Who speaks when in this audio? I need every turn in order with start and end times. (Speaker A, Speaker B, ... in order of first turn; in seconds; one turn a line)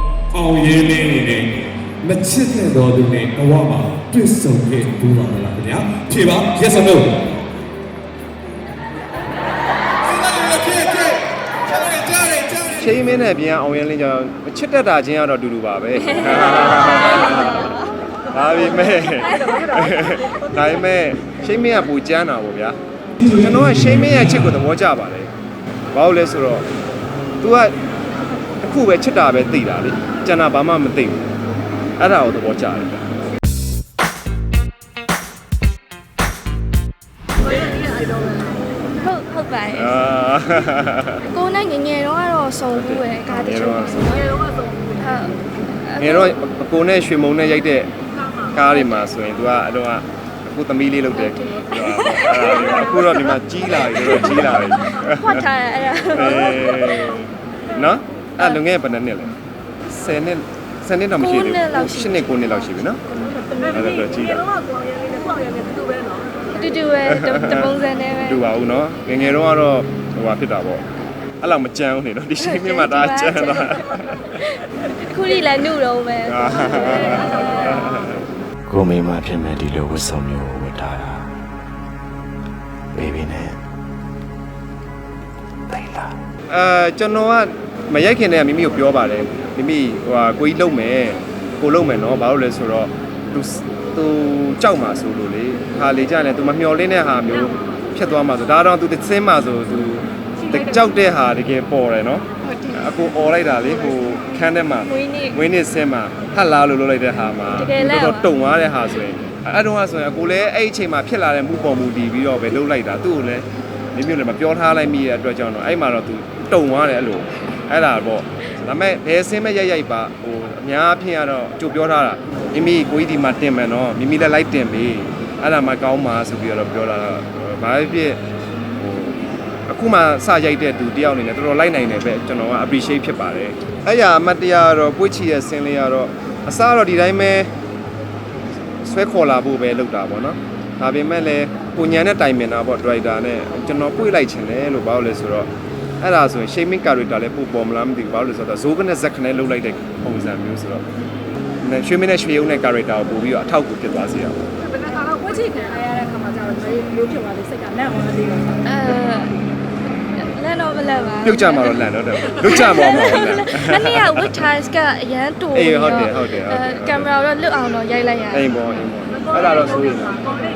Speaker A: 0.3-7.3
Speaker A: 10.0-12.9
Speaker B: 12.7-17.7
Speaker C: 16.1-17.8
Speaker B: 18.3-25.3
Speaker D: 19.4-20.4
Speaker B: 25.9-26.6
Speaker B: 27.4-27.7
Speaker B: 28.6-31.2
Speaker B: 32.0-33.0
Speaker D: 37.7-38.5
Speaker C: 39.0-39.9
Speaker B: 39.7-41.2
Speaker C: 41.2-44.3
Speaker B: 42.8-44.2
Speaker C: 45.0-46.3
Speaker B: 46.0-47.9
Speaker B: 48.5-55.4
Speaker C: 48.6-49.1
Speaker C: 51.1-52.6
Speaker C: 54.3-57.2
Speaker B: 56.1-59.3
Speaker B: 59.9-63.0
Speaker C: 61.2-62.7
Speaker D: 63.2-66.5
Speaker B: 63.7-64.4
Speaker C: 66.5-68.4
Speaker B: 67.1-67.7
Speaker B: 68.3-70.8
Speaker B: 71.4-74.3
Speaker C: 72.4-74.5
Speaker C: 75.1-77.9
Speaker B: 76.3-78.2
Speaker E: 78.7-81.3
Speaker E: 82.9-83.6
Speaker E: 85.7-86.1
Speaker B: 86.5-128.2
Speaker C: 102.5-102.8
Speaker C: 104.8-105.4
Speaker C: 107.5-108.3
Speaker B: 128.8-137.5
Speaker B: 138.8-145.5
Speaker B: 146.0-150.8
Speaker B: 151.6-154.4
Speaker D: 154.9-158.6
Speaker C: 158.7-159.3
Speaker C: 160.2-168.4
Speaker B: 161.2-164.0
Speaker B: 165.5-167.1
Speaker B: 168.3-170.2